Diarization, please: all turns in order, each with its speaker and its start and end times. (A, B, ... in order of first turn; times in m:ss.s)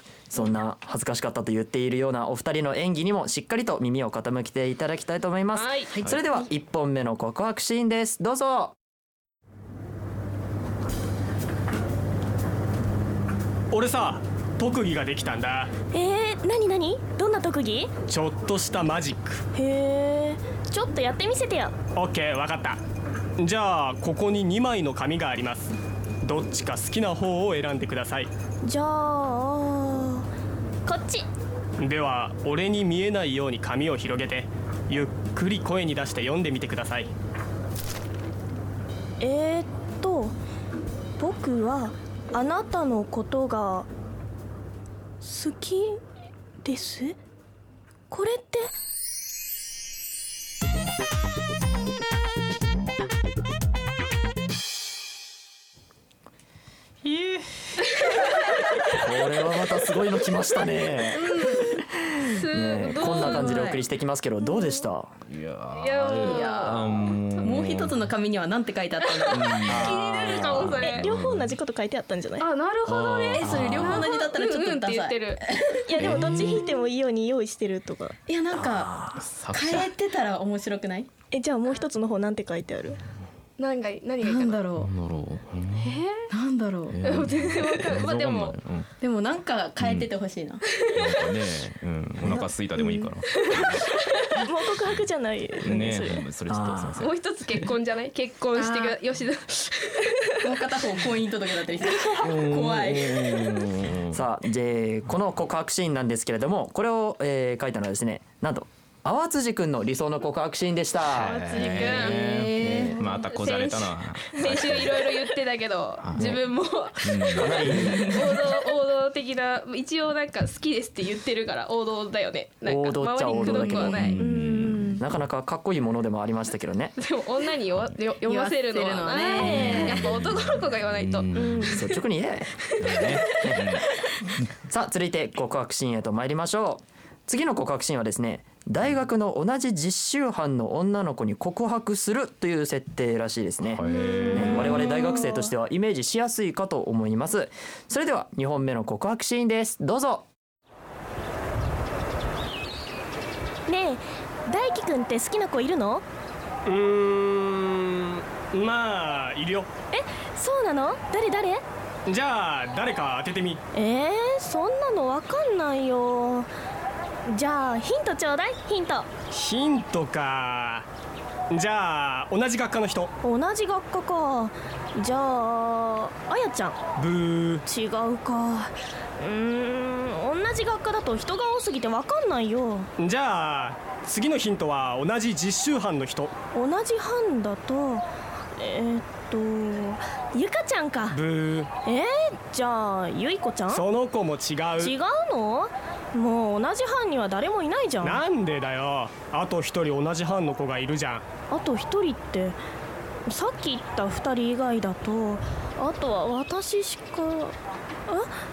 0:00.3-0:08.7 A
0:05.5-0:05.9 B
0:13.7-0:15.7 C
0:15.9-0:17.9 D
0:18.1-0:19.4 C
0:19.5-0:21.7 D
0:21.9-0:22.8 C
0:23.4-0:25.7 C
0:26.2-0:28.3 C
0:28.6-0:30.2 D
0:30.8-0:31.3 D
0:31.8-0:37.1 C
0:39.2-0:40.3 D
0:41.2-0:43.9 D
0:45.2-0:46.0 D
0:46.6-0:47.2 D
0:48.1-0:48.7 D
0:59.0-1:01.8 A
1:01.2-1:01.8 E
1:02.2-1:03.8 B
1:02.5-1:05.1 A
1:03.1-1:03.7 D
1:05.3-1:08.0 F
1:05.7-1:06.9 B
1:06.1-1:09.5 E
1:09.0-1:11.1 B
1:09.3-1:11.6 F
1:09.6-1:10.8 A
1:10.8-1:12.4 D
1:12.4-1:15.4 B
1:12.8-1:14.1 F
1:13.4-1:16.4 E
1:15.8-1:18.2 D
1:16.0-1:16.4 F
1:18.3-1:21.1 E
1:19.1-1:19.9 F
1:21.3-1:23.0 D
1:23.6-1:24.6 B
1:24.2-1:24.9 E
1:24.8-1:26.0 F
1:25.8-1:26.3 B
1:26.3-1:27.0 E
1:26.9-1:28.9 F
1:27.0-1:28.6 B
1:29.0-1:30.8 E
1:29.8-1:30.1 F
1:30.7-1:31.3 B
1:30.9-1:33.9 F
1:32.3-1:33.1 D
1:33.3-1:34.0 B
1:34.4-1:36.2 D
1:35.6-1:37.1 F
1:36.5-1:37.0 A
1:37.0-1:40.7 B
1:38.5-1:39.0 E
1:40.4-1:43.6 E
1:42.2-1:44.2 F
1:44.1-1:51.4 A
1:51.1-1:55.0 F
1:51.3-1:52.3 B
1:51.5-1:53.1 E
1:52.9-2:04.2 B
1:56.0-1:56.4 F
1:56.2-1:56.4 A
1:57.0-1:57.8 F
1:57.4-1:58.1 A
1:57.8-1:58.3 E
2:02.6-2:06.9 A
2:03.4-2:05.0 D
2:03.9-2:04.9 F
2:07.0-2:12.0 B
2:08.2-2:10.0 E
2:09.4-2:10.0 D
2:09.4-2:11.8 F
2:11.3-2:11.7 D
2:11.7-2:13.6 A
2:12.8-2:13.8 F
2:12.8-2:13.2 B
2:14.7-2:30.2 A
2:23.6-2:24.8 F
2:23.8-2:25.5 D
2:33.7-2:36.0 D
2:36.6-2:39.7 C
2:39.9-2:41.6 D
2:42.1-2:43.6 C
2:43.7-2:46.5 D
2:47.3-2:49.1 D
2:49.3-2:50.8 C
2:51.5-2:53.1 C
2:53.2-2:56.8 D
2:57.0-2:57.6 C
2:57.6-3:02.9 D
3:03.0-3:06.3 C
3:06.5-3:08.0 D
3:08.6-3:11.2 D
3:11.1-3:11.7 C
3:11.8-3:13.8 D
3:13.7-3:14.9 C
3:14.8-3:18.2 D
3:18.0-3:21.2 C
3:21.5-3:22.6 D
3:23.3-3:27.5 D